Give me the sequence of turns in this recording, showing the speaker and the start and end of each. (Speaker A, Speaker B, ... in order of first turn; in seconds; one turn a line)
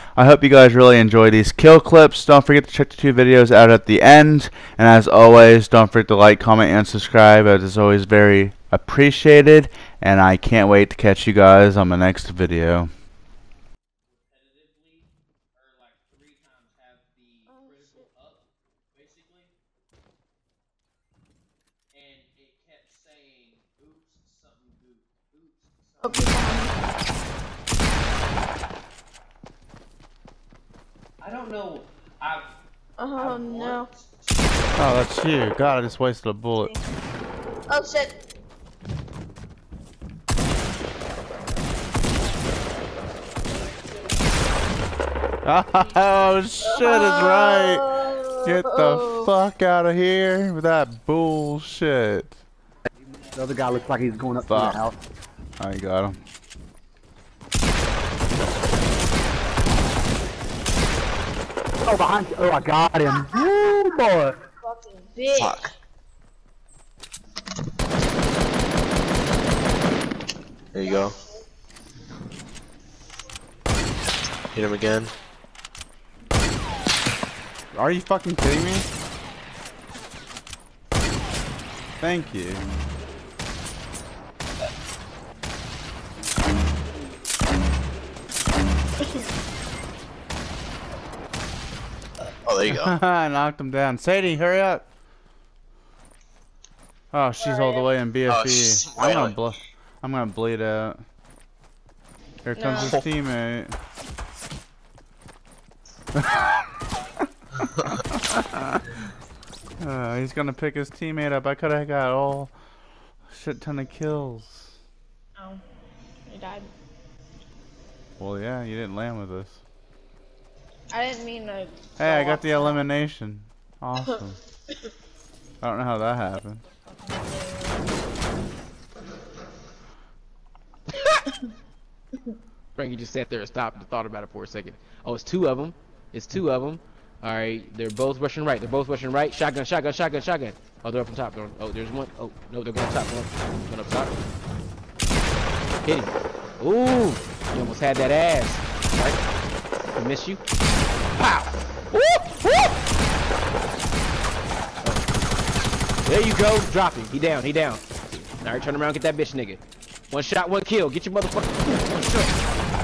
Speaker A: 0.2-12.9
Speaker B: 14.1-19.5
Speaker C: 17.5-18.1
Speaker B: 21.9-26.9
Speaker C: 26.0-26.8
Speaker B: 31.2-32.5
Speaker C: 33.0-33.9
Speaker B: 33.1-34.9
Speaker A: 34.8-36.7
Speaker C: 37.7-38.2
Speaker B: 43.5-44.1
Speaker A: 45.5-52.4
Speaker C: 46.6-49.3
Speaker B: 53.1-53.9
Speaker D: 53.3-55.0
Speaker A: 54.5-54.8
Speaker A: 55.6-56.2
Speaker D: 61.9-64.4
Speaker C: 64.6-65.7
Speaker E: 65.4-65.7
Speaker E: 70.7-71.2
Speaker C: 70.8-71.2
Speaker E: 74.5-75.1
Speaker A: 77.7-78.9
Speaker A: 82.0-82.7
Speaker E: 92.5-93.0
Speaker A: 92.7-94.8
Speaker A: 97.1-101.0
Speaker C: 97.4-97.9
Speaker E: 98.3-99.4
Speaker A: 102.5-103.8
Speaker C: 102.6-103.0
Speaker E: 102.8-103.0
Speaker A: 106.2-106.7
Speaker A: 107.8-108.8
Speaker A: 109.8-112.5
Speaker A: 113.3-114.7
Speaker C: 115.4-115.6
Speaker C: 116.3-116.7
Speaker A: 118.2-119.6
Speaker C: 120.9-122.8
Speaker A: 122.0-124.4
Speaker A: 125.6-126.6
Speaker C: 126.9-127.8
Speaker F: 132.8-144.2
Speaker F: 145.8-149.2
Speaker F: 149.9-150.4
Speaker F: 151.1-152.8
Speaker F: 156.1-162.4